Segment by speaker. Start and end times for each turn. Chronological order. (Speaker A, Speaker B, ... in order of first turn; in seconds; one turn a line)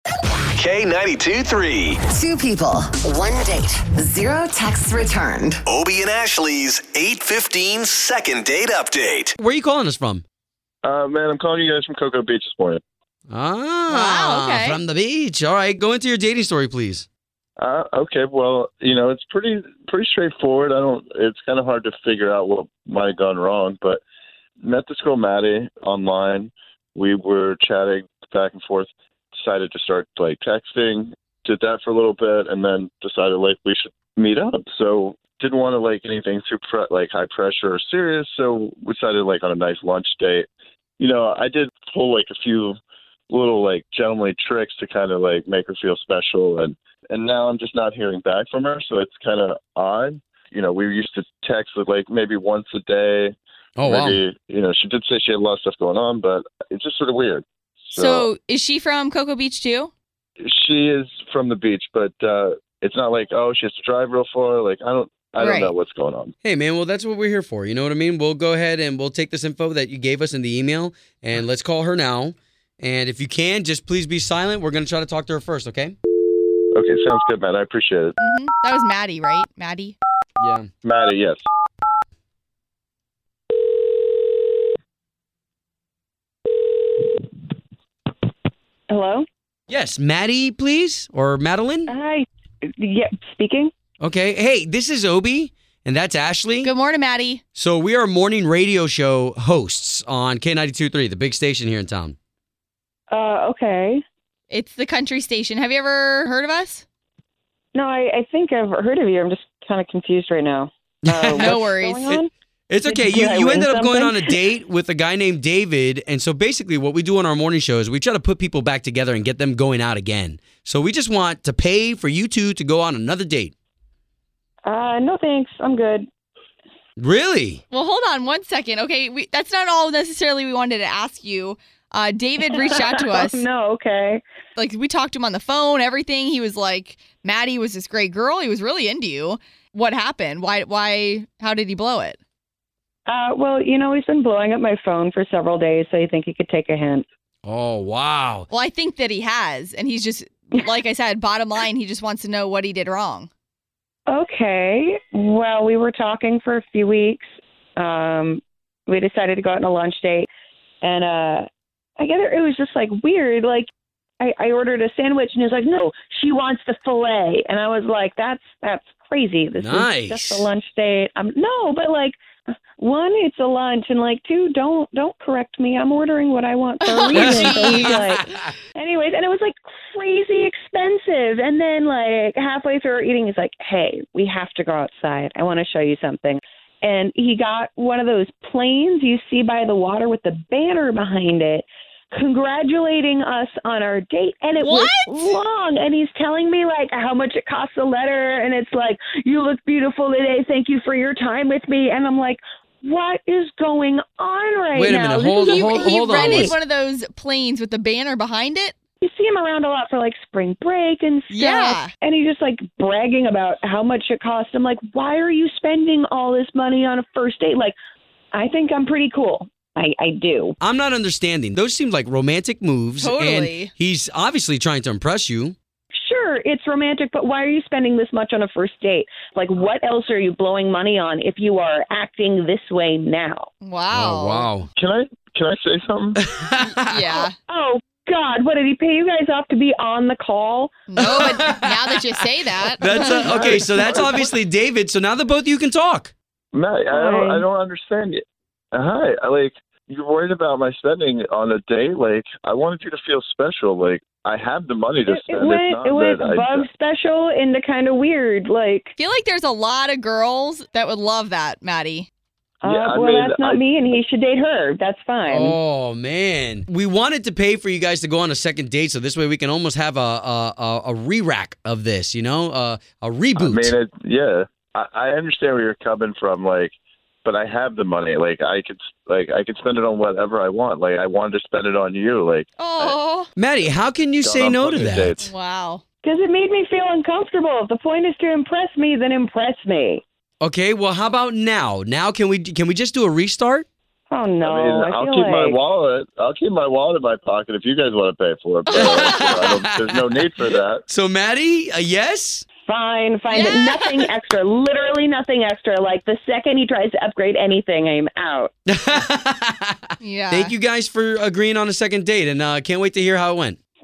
Speaker A: 0.6-2.0
Speaker B: 2.1-5.6
Speaker A: 5.7-9.3
Speaker C: 9.4-10.2
Speaker D: 10.8-12.8
Speaker C: 13.3-17.1
Speaker E: 13.9-14.8
Speaker D: 17.6-24.0
Speaker D: 24.6-40.5
Speaker D: 41.0-42.8
Speaker D: 43.3-58.3
Speaker C: 53.8-54.2
Speaker E: 57.9-59.9
Speaker D: 60.4-66.3
Speaker E: 65.4-65.7
Speaker C: 66.4-76.0
Speaker D: 76.7-78.2
Speaker E: 78.2-79.9
Speaker C: 80.4-80.7
Speaker D: 80.8-81.5
Speaker F: 88.9-89.3
Speaker C: 89.7-91.9
Speaker F: 91.9-93.7
Speaker C: 94.0-96.7
Speaker E: 96.6-97.4
Speaker C: 97.5-102.2
Speaker F: 103.1-104.0
Speaker E: 104.5-106.8
Speaker F: 107.7-112.3
Speaker C: 111.1-111.6
Speaker E: 111.4-112.2
Speaker C: 112.7-123.5
Speaker F: 112.9-114.3
Speaker F: 124.7-126.1
Speaker C: 127.0-127.6
Speaker E: 127.7-133.4
Speaker F: 132.5-134.2
Speaker E: 134.6-142.2
Speaker F: 143.1-147.1
Speaker C: 147.4-148.5
Speaker E: 148.5-153.3
Speaker F: 154.1-160.3
Speaker F: 160.8-161.5
Speaker F: 162.0-163.7
Speaker F: 164.2-206.6
Speaker C: 169.6-170.5
Speaker C: 177.1-178.5
Speaker E: 194.6-195.4
Speaker C: 204.8-206.5
Speaker E: 205.5-208.7
Speaker F: 209.0-217.8
Speaker E: 211.3-211.9
Speaker F: 218.3-220.6
Speaker C: 220.6-225.6
Speaker E: 223.0-223.7
Speaker F: 225.9-233.5
Speaker E: 233.6-234.6
Speaker C: 233.9-234.7
Speaker D: 234.8-236.2
Speaker C: 236.2-237.3
Speaker E: 236.6-237.4
Speaker F: 237.5-241.1
Speaker E: 240.9-243.2
Speaker C: 241.0-246.1
Speaker D: 242.9-244.3
Speaker D: 246.5-248.2
Speaker F: 246.9-247.4
Speaker D: 248.7-256.7
Speaker F: 255.1-258.9
Speaker E: 259.0-262.1
Speaker F: 262.6-265.6
Speaker D: 262.6-263.7
Speaker C: 265.3-273.7
Speaker D: 273.4-283.0
Speaker E: 282.6-283.3
Speaker C: 283.4-285.2
Speaker D: 283.6-285.3
Speaker E: 285.2-285.8
Speaker F: 286.0-290.0
Speaker C: 290.4-293.7
Speaker F: 294.1-295.6
Speaker D: 294.4-300.8
Speaker E: 298.7-299.4
Speaker C: 298.7-302.4
Speaker F: 302.7-308.5
Speaker E: 303.3-304.0
Speaker C: 308.7-313.6
Speaker E: 310.0-310.6